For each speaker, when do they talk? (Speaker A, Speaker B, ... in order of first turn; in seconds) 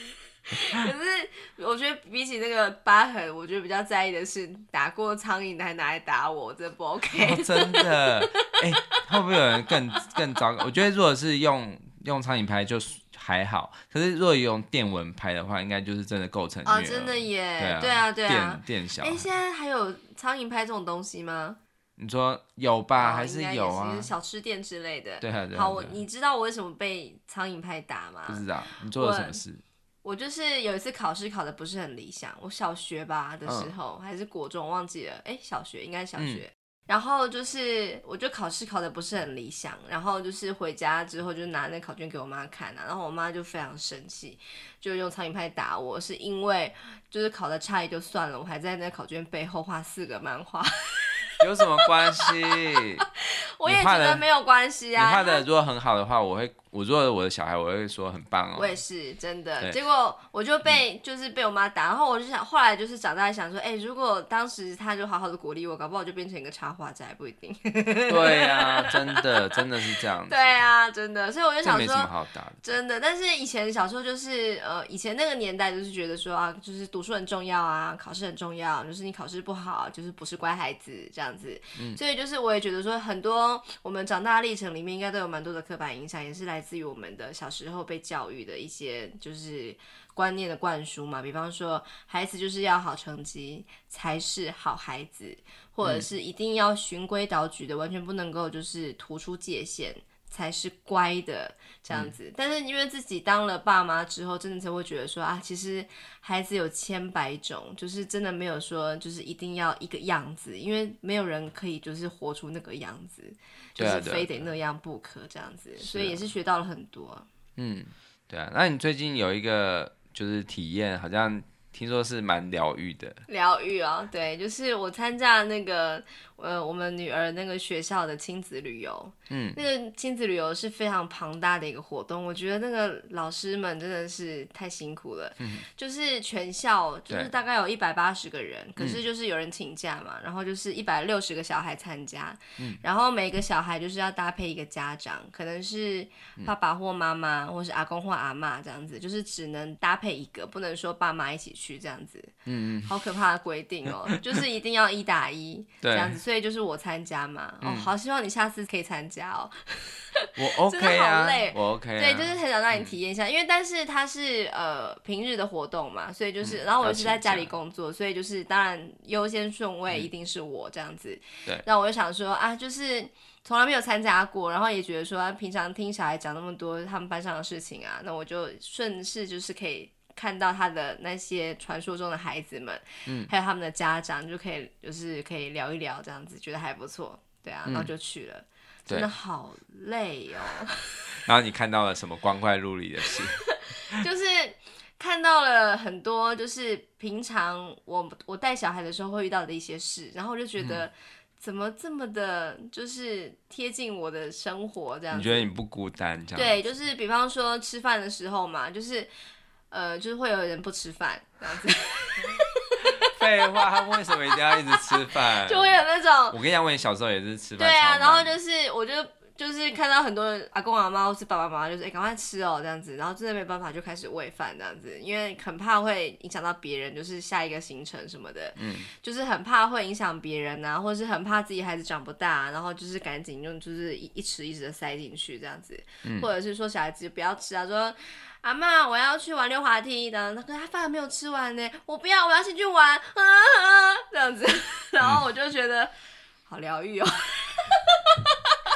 Speaker A: 0.5-8.5, 9.1-10.2, 16.6-21.6, 23.0-29.4, 30.0-55.4, 58.5-69.6, 70.3-72.1, 72.6-117.3, 123.3-152.3, 152.8-191.2, 193.1-205.5, 206.3-209.1, 209.7-216.4, 217.6-245.9, 246.5-248.6
Speaker B: 7.2-19.3, 22.0-24.1, 25.2-26.0, 28.3-29.6, 33.5-33.7, 36.2-36.4, 51.4-53.0, 53.6-54.2, 55.0-58.8, 68.1-70.6, 71.6-72.6, 113.8-114.5, 115.8-116.2, 117.6-123.2, 129.3-129.6, 135.4-135.7, 152.5-153.0, 154.1-154.4, 155.8-156.2, 157.6-157.9, 160.4-162.9, 166.4-167.5, 187.7-187.9, 191.2-194.0, 200.6-200.8, 205.1-206.6, 212.8-215.8, 216.3-218.4, 228.6-228.9, 236.0-236.3